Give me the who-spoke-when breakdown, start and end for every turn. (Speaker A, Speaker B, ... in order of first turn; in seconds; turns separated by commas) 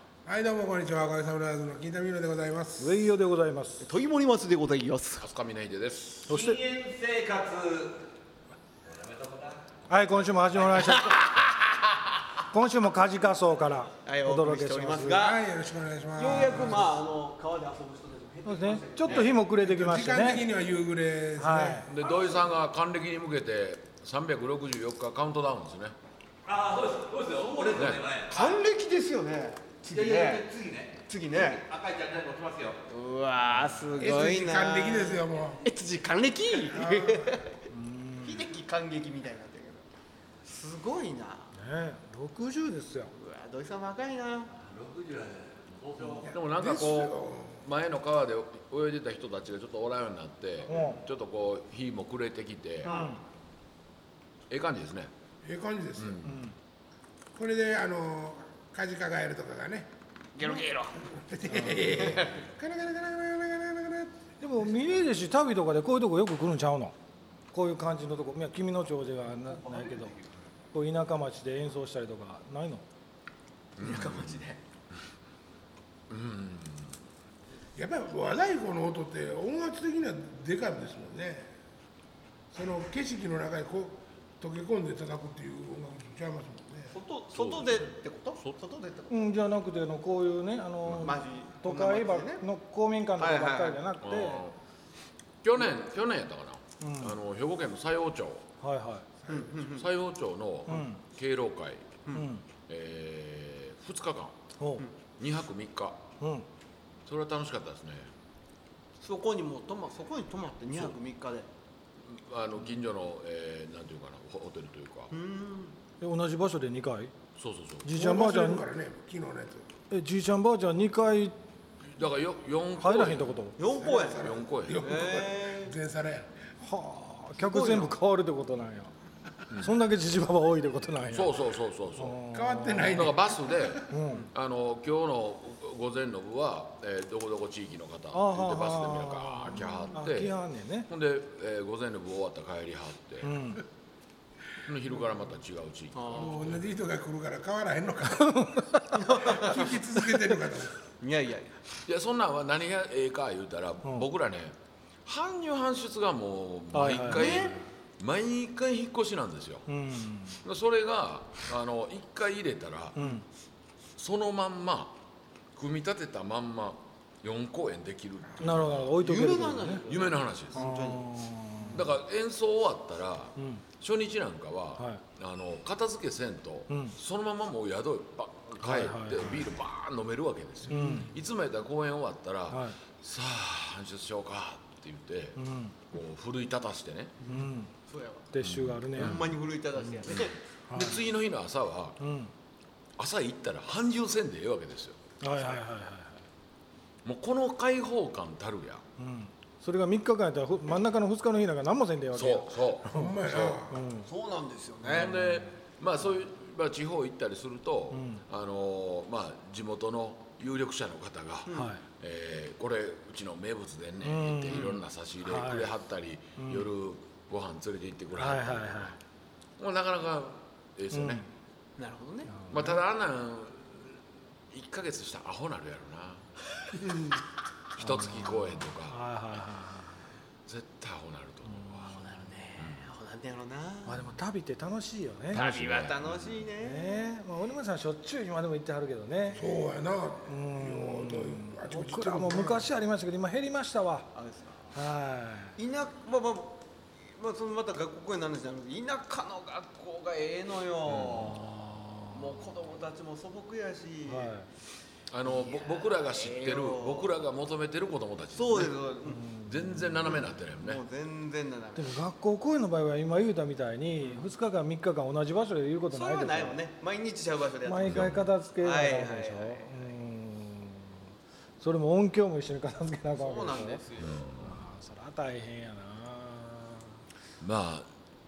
Speaker A: 0.2-3.0, Speaker B: 2.8-3.9, Speaker C: 3.8-5.2, Speaker D: 5.2-6.3, Speaker E: 6.3-8.0, Speaker B: 6.3-6.6, Speaker E: 8.8-11.2, Speaker B: 9.9-11.2, Speaker B: 12.5-15.2, Speaker C: 14.0-15.4, Speaker A: 15.1-16.9, Speaker C: 16.1-19.4, Speaker B: 16.3-16.8, Speaker B: 18.4-20.4, Speaker A: 19.6-22.1, Speaker B: 21.4-21.9, Speaker D: 21.9-25.9, Speaker E: 26.4-28.6, Speaker C: 27.5-31.6, Speaker D: 27.7-28.0, Speaker E: 29.9-32.8, Speaker C: 32.9-37.6, Speaker B: 33.6-33.8, Speaker A: 34.0-35.6, Speaker A: 36.7-37.4, Speaker B: 37.7-38.5, Speaker C: 38.2-39.8, Speaker C: 40.4-41.5, Speaker B: 41.5-43.1, Speaker C: 43.1-44.5, Speaker E: 44.5-46.3, Speaker A: 46.2-47.6, Speaker D: 46.3-53.0, Speaker B: 50.7-51.0, Speaker C: 50.7-51.0, Speaker C: 52.8-53.1, Speaker B: 52.9-53.2, Speaker D: 54.5-55.1, Speaker A: 55.4-56.2, Speaker D: 56.0-56.5, Speaker B: 56.2-56.5, Speaker A: 57.3-59.9, Speaker C: 60.4-61.2, Speaker A: 61.1-64.2, Speaker B: 61.5-61.8, Speaker C: 61.7-62.4, Speaker B: 64.4-66.9, Speaker B: 67.5-70.1, Speaker C: 69.6-70.2, Speaker B: 70.7-72.8, Speaker D: 73.8-74.4, Speaker C: 73.8-74.6, Speaker D: 76.1-77.0, Speaker A: 77.7-81.5, Speaker A: 82.5-87.0, Speaker C: 86.9-89.1, Speaker D: 87.3-88.6, Speaker B: 89.1-94.4, Speaker D: 90.8-91.2, Speaker C: 91.0-92.4, Speaker C: 93.2-93.8, Speaker D: 94.0-94.5, Speaker D: 95.4-98.4, Speaker B: 96.8-97.2, Speaker B: 98.6-99.0, Speaker A: 99.2-99.5, Speaker C: 99.3-99.9, Speaker D: 99.6-102.0, Speaker B: 100.7-101.0, Speaker B: 102.1-102.4, Speaker D: 102.7-104.4, Speaker B: 104.6-104.8, Speaker D: 105.2-106.0, Speaker B: 106.2-106.5, Speaker D: 107.0-108.1, Speaker C: 109.0-111.5, Speaker D: 112.0-115.1, Speaker C: 115.1-115.8, Speaker B: 116.0-117.1, Speaker D: 117.3-117.8, Speaker B: 117.8-118.6, Speaker A: 117.9-119.7, Speaker B: 119.9-121.3, Speaker D: 121.8-123.4, Speaker B: 122.8-123.5, Speaker C: 123.6-125.8, Speaker A: 123.6-126.4, Speaker D: 124.1-125.0, Speaker B: 126.6-128.9, Speaker C: 127.4-127.9, Speaker D: 129.5-129.7, Speaker B: 129.5-131.4, Speaker D: 131.1-132.2, Speaker B: 131.9-133.1, Speaker A: 132.3-133.8, Speaker D: 132.7-143.5, Speaker B: 133.9-134.3, Speaker B: 138.1-140.9, Speaker B: 143.2-143.6, Speaker D: 144.6-146.6, Speaker C: 145.9-146.4, Speaker A: 146.1-150.8, Speaker B: 148.2-148.8, Speaker C: 148.9-150.2, Speaker C: 151.0-151.5, Speaker D: 151.8-159.7, Speaker B: 156.7-157.5, Speaker C: 157.1-157.6, Speaker B: 159.7-160.4, Speaker D: 160.4-163.0, Speaker B: 162.9-163.2, Speaker D: 164.0-165.0, Speaker D: 165.5-169.0, Speaker B: 168.4-169.8, Speaker C: 169.0-171.0, Speaker D: 169.8-170.7, Speaker B: 170.5-171.9, Speaker D: 171.7-185.4, Speaker B: 173.4-173.6, Speaker B: 176.7-176.9, Speaker B: 178.6-179.5, Speaker B: 180.7-181.1, Speaker B: 182.5-182.8, Speaker B: 185.3-185.7, Speaker D: 185.9-187.2, Speaker B: 187.2-187.7, Speaker C: 187.9-188.3, Speaker B: 188.3-189.2, Speaker D: 188.4-189.3, Speaker C: 188.9-190.4, Speaker D: 190.1-192.0, Speaker B: 190.7-191.1, Speaker B: 192.0-192.3, Speaker D: 193.0-195.0, Speaker B: 195.2-196.2, Speaker C: 195.3-195.6, Speaker D: 197.0-198.8, Speaker B: 199.0-203.1, Speaker D: 202.1-203.6, Speaker A: 202.9-203.8, Speaker B: 203.7-204.1, Speaker C: 204.0-205.3, Speaker D: 204.8-218.9, Speaker B: 207.9-208.2, Speaker B: 211.5-211.8, Speaker B: 214.0-215.7, Speaker B: 216.4-216.7, Speaker B: 218.2-218.9, Speaker D: 219.6-221.2, Speaker B: 220.9-221.2, Speaker C: 221.8-222.3, Speaker B: 222.3-222.8, Speaker D: 222.5-224.0, Speaker D: 224.5-226.3, Speaker D: 227.8-229.0, Speaker B: 227.8-230.0, Speaker D: 230.4-232.0, Speaker B: 231.6-231.9, Speaker C: 231.9-234.1, Speaker D: 232.6-232.8, Speaker B: 233.8-235.4, Speaker D: 235.3-236.5, Speaker C: 235.3-237.1, Speaker B: 236.6-239.6, Speaker A: 239.3-242.7, Speaker B: 240.3-244.1, Speaker C: 244.1-244.7, Speaker B: 244.7-245.6, Speaker C: 245.6-251.5, Speaker D: 250.9-251.3, Speaker B: 251.3-252.2, Speaker C: 252.1-254.4, Speaker B: 254.1-254.4, Speaker D: 255.1-258.8, Speaker C: 255.2-257.1, Speaker C: 258.3-259.2, Speaker B: 259.1-260.1, Speaker D: 259.4-260.8, Speaker C: 260.0-262.0, Speaker B: 261.7-266.6, Speaker C: 265.9-269.9, Speaker B: 267.6-271.0, Speaker D: 267.8-268.2, Speaker B: 271.6-273.8, Speaker C: 273.1-274.2, Speaker D: 273.9-274.6, Speaker B: 274.4-276.9, Speaker D: 277.4-277.9